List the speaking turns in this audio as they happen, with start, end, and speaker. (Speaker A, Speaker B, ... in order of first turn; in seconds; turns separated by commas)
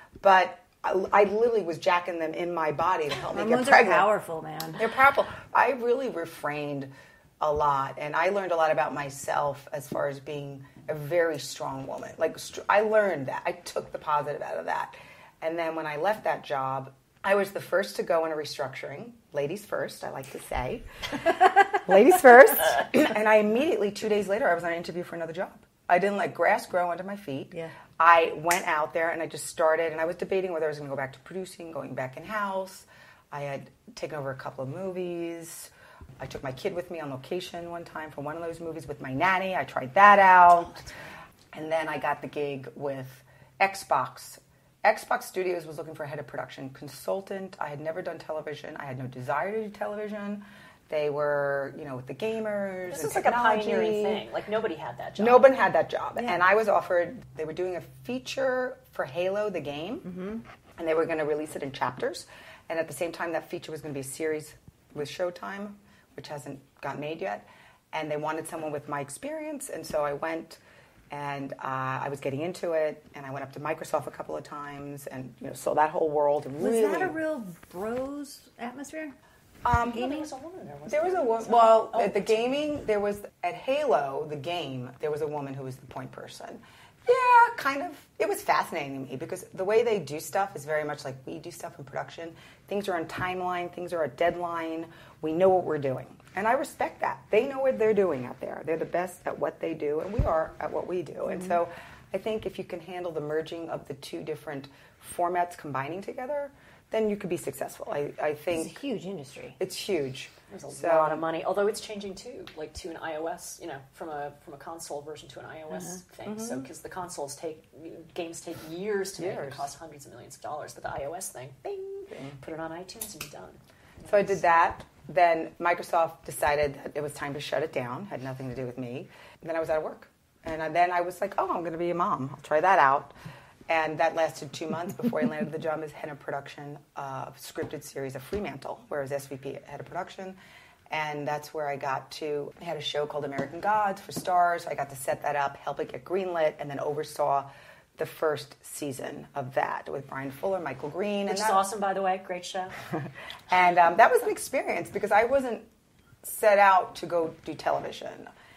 Speaker A: 0.2-4.1, Speaker B: 3.2-4.8, Speaker A: 4.8-40.8, Speaker A: 41.5-54.2, Speaker C: 52.9-55.5, Speaker A: 55.2-60.1, Speaker B: 60.0-60.4, Speaker A: 60.8-77.2, Speaker B: 76.6-79.1, Speaker A: 79.6-80.0, Speaker C: 79.9-82.6, Speaker B: 79.9-80.2, Speaker A: 80.9-108.8, Speaker B: 108.5-109.6, Speaker A: 109.6-111.2, Speaker C: 110.5-124.3, Speaker A: 116.3-116.7, Speaker A: 119.2-119.7, Speaker A: 122.1-122.4, Speaker A: 124.1-133.1, Speaker A: 133.7-140.4, Speaker A: 140.9-151.6, Speaker C: 151.3-152.7, Speaker A: 153.5-155.7, Speaker A: 156.2-158.3